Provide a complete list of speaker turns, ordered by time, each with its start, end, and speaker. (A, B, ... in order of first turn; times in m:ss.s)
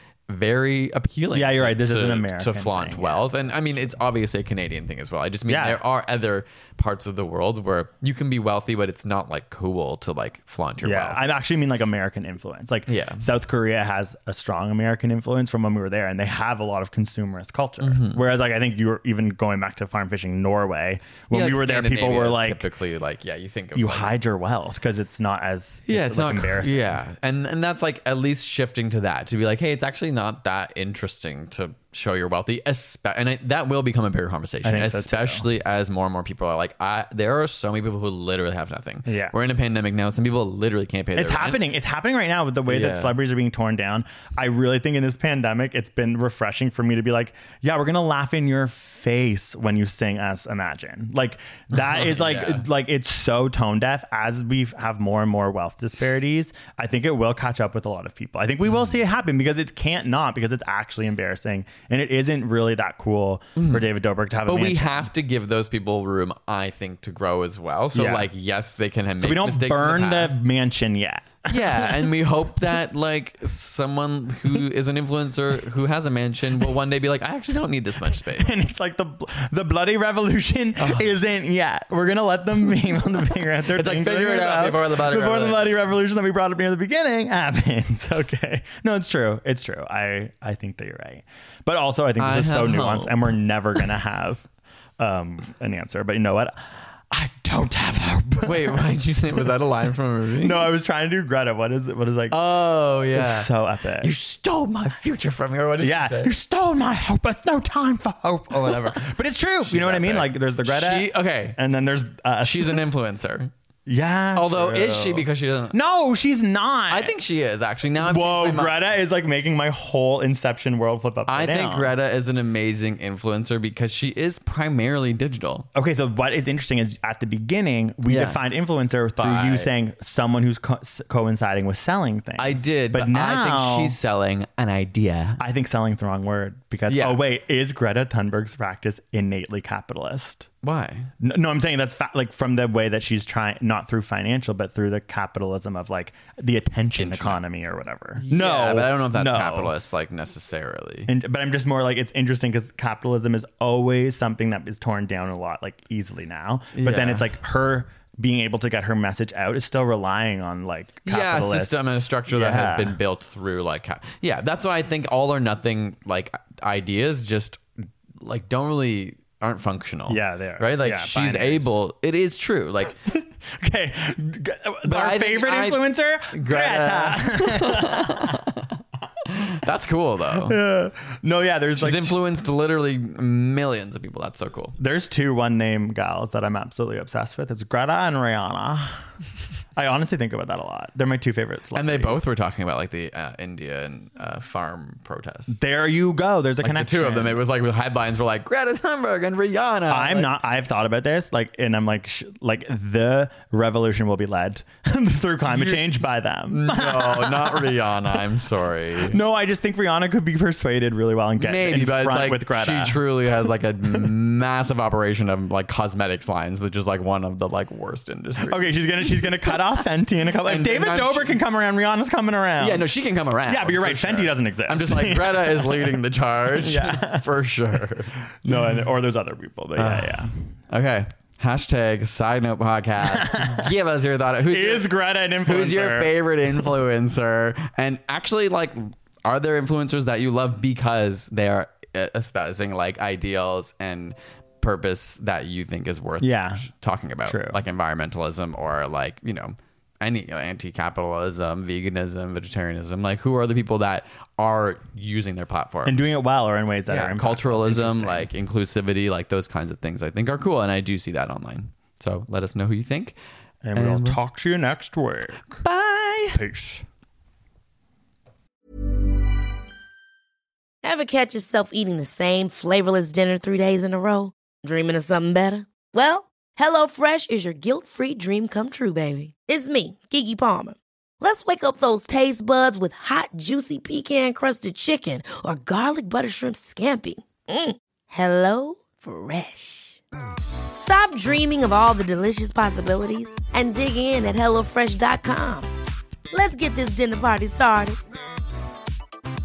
0:00.3-0:11.2 A
0:01.3-0:04.0 B
0:05.5-0:05.8 B
0:10.8-0:22.6 B
0:12.9-0:13.3 A
0:17.8-0:18.2 A
0:21.3-0:24.2 A
0:23.7-0:27.0 B
0:25.9-0:41.6 A
0:34.6-0:35.4 B
0:39.0-0:39.3 B
0:41.1-1:05.1 B
0:42.7-0:43.1 A
0:51.7-0:52.7 A
0:58.6-0:58.9 A
1:03.6-1:03.9 A
1:04.4-1:10.4 A
1:07.9-1:08.3 B
1:09.2-1:12.1 B
1:11.5-1:18.6 A
1:18.0-1:39.0 B
1:20.8-1:21.1 A
1:23.7-1:25.9 A
1:32.2-1:33.3 A
1:38.4-1:40.7 A
1:40.4-1:42.4 B
1:42.3-1:46.3 A
1:43.1-1:44.1 B
1:45.8-1:52.8 B
1:49.7-1:51.6 A
1:52.4-1:53.5 A
1:53.8-1:57.1 B
1:54.3-1:55.8 A
1:56.9-1:58.9 A
1:58.0-2:01.9 B
2:01.3-2:05.7 A
2:05.7-2:14.0 B
2:08.1-2:08.4 A
2:09.2-2:09.7 A
2:12.4-2:15.4 A
2:15.4-2:20.5 B
2:16.9-2:17.2 A
2:20.6-2:21.1 A
2:21.2-2:29.7 B
2:27.0-2:27.4 A
2:28.2-2:31.1 A
2:31.1-2:43.0 B
2:36.7-2:37.3 A
2:41.0-2:47.6 A
2:48.2-2:53.0 A
2:50.1-2:51.7 B
2:53.0-2:58.4 B
2:54.8-2:58.7 A
2:59.3-3:00.6 A
3:00.3-3:02.2 B
3:01.8-3:04.7 A
3:04.8-3:09.0 B
3:09.7-3:12.3 B
3:11.7-3:15.6 A
3:15.5-3:17.4 B
3:16.6-3:20.3 A
3:19.9-3:27.9 B
3:25.5-3:25.8 A
3:26.5-3:29.2 A
3:29.0-3:33.0 B
3:31.4-3:39.6 A
3:38.4-3:42.9 B
3:40.4-3:41.4 A
3:42.6-3:48.2 A
3:43.5-3:47.3 B
3:48.2-3:50.3 B
3:49.8-3:54.9 A
3:53.0-3:53.7 B
3:54.5-3:56.7 B
3:55.4-4:16.2 A
4:06.2-4:06.7 B
4:07.2-4:07.6 B
4:15.8-4:18.3 B
4:16.9-4:23.2 A
4:23.6-4:25.6 B
4:23.7-4:24.2 A
4:25.6-4:26.4 A
4:26.3-4:26.8 B
4:30.8-4:50.0 C
4:50.8-4:55.7 C
4:56.3-4:58.0 C